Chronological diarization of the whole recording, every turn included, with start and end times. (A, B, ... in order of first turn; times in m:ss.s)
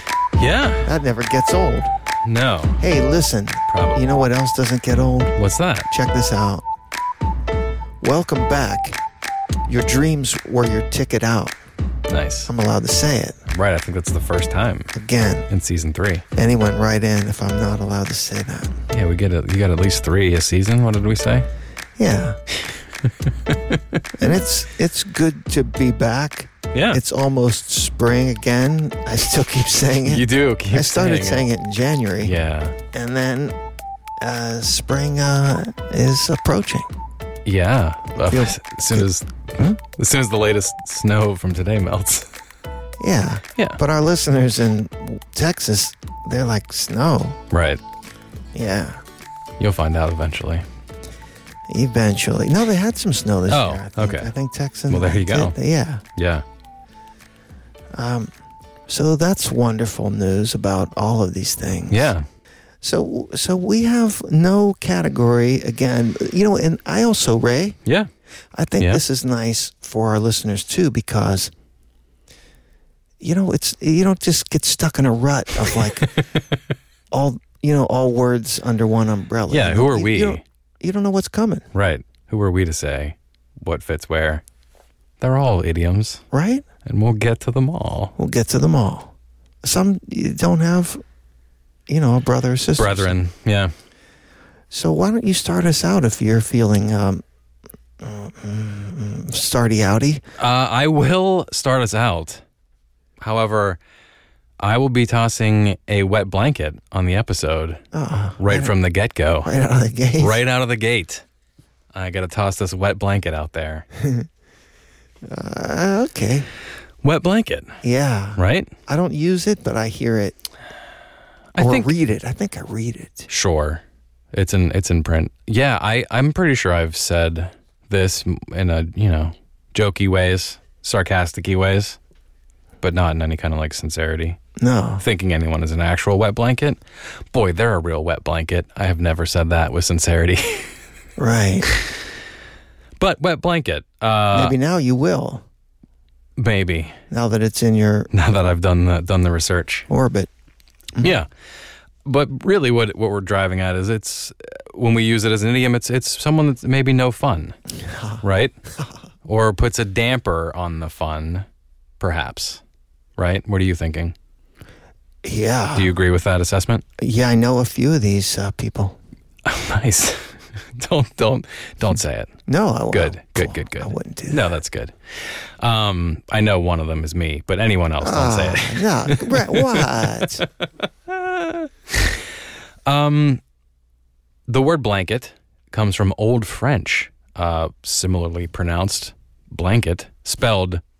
0:00.4-0:00.9 A
0:00.8-0:01.9 B
0:02.2-0:02.8 A
0:02.8-0:05.4 B
0:03.7-0:04.1 A
0:05.4-0:05.9 A
0:05.9-0:06.6 B
0:08.0-0:09.0 B
0:09.7-0:11.6 B
0:12.1-0:12.5 A
0:12.5-0:13.5 B
0:13.5-0:14.9 A
0:14.9-0:15.5 B
0:15.5-0:16.2 A
0:16.3-0:18.8 B
0:18.9-0:21.5 A
0:22.0-0:22.4 B
0:23.2-0:24.0 A
0:24.2-0:32.3 B
0:26.7-0:27.0 A
0:30.1-0:31.5 A
0:32.2-0:32.8 A
0:32.9-0:33.6 B
0:34.2-0:36.9 B
0:37.4-0:42.3 A
0:38.1-0:39.8 B
0:43.0-0:47.4 B
0:47.5-0:47.8 A
0:48.5-0:49.0 B
0:49.6-0:50.6 A
0:51.7-0:56.0 B
0:53.5-0:54.3 A
0:54.9-0:55.5 A
0:56.2-0:56.4 A
0:57.9-0:58.3 B
0:58.9-1:02.1 B
1:01.9-1:02.2 A
1:02.8-1:07.8 B
1:08.5-1:11.5 B
1:13.2-1:16.1 B
1:16.0-1:16.3 A
1:17.1-1:21.7 B
1:19.5-1:20.4 A
1:21.7-1:24.4 A
1:25.2-1:26.2 A
1:26.3-1:26.6 B
1:26.8-1:28.1 A
1:28.2-1:29.1 B
1:29.6-1:31.0 B
1:31.9-1:33.1 B
1:32.8-1:33.7 A
1:34.7-1:37.2 B
1:38.0-1:40.2 B
1:40.4-1:42.4 A
1:43.2-1:43.8 A
1:44.6-1:47.8 A
1:47.9-1:48.7 B
1:48.4-1:49.5 A
1:49.4-1:50.4 B
1:50.2-1:51.2 A
1:51.9-1:53.8 A
1:54.0-1:54.3 B
1:55.2-1:56.5 B
1:57.0-1:57.8 A
1:57.8-2:00.4 B
1:58.4-1:58.7 A
2:01.5-2:01.9 A
2:01.6-2:03.3 B
2:03.3-2:03.8 A
2:04.3-2:12.0 A
2:12.8-2:14.4 A
2:14.6-2:15.0 B
2:15.0-2:16.8 A
2:17.3-2:20.7 A
2:21.2-2:21.6 B
2:23.0-2:24.5 A
2:24.3-2:25.4 B
2:26.4-2:27.0 A
2:27.1-2:28.1 B
2:28.1-2:29.9 A
2:29.9-2:30.3 B
2:31.0-2:31.3 A
2:32.0-2:37.6 A
2:37.8-2:38.2 B
2:38.2-2:38.6 A
2:39.2-2:41.4 A
2:42.0-2:42.6 A
2:43.2-2:44.1 A
2:45.2-2:45.9 B
2:45.7-2:46.8 A
2:47.0-2:49.0 B
2:49.4-2:52.3 A
2:52.5-2:54.5 B
2:52.9-3:00.3 A
2:58.0-3:00.5 B
3:01.1-3:02.2 A
3:02.8-3:03.4 A
3:04.5-3:10.8 A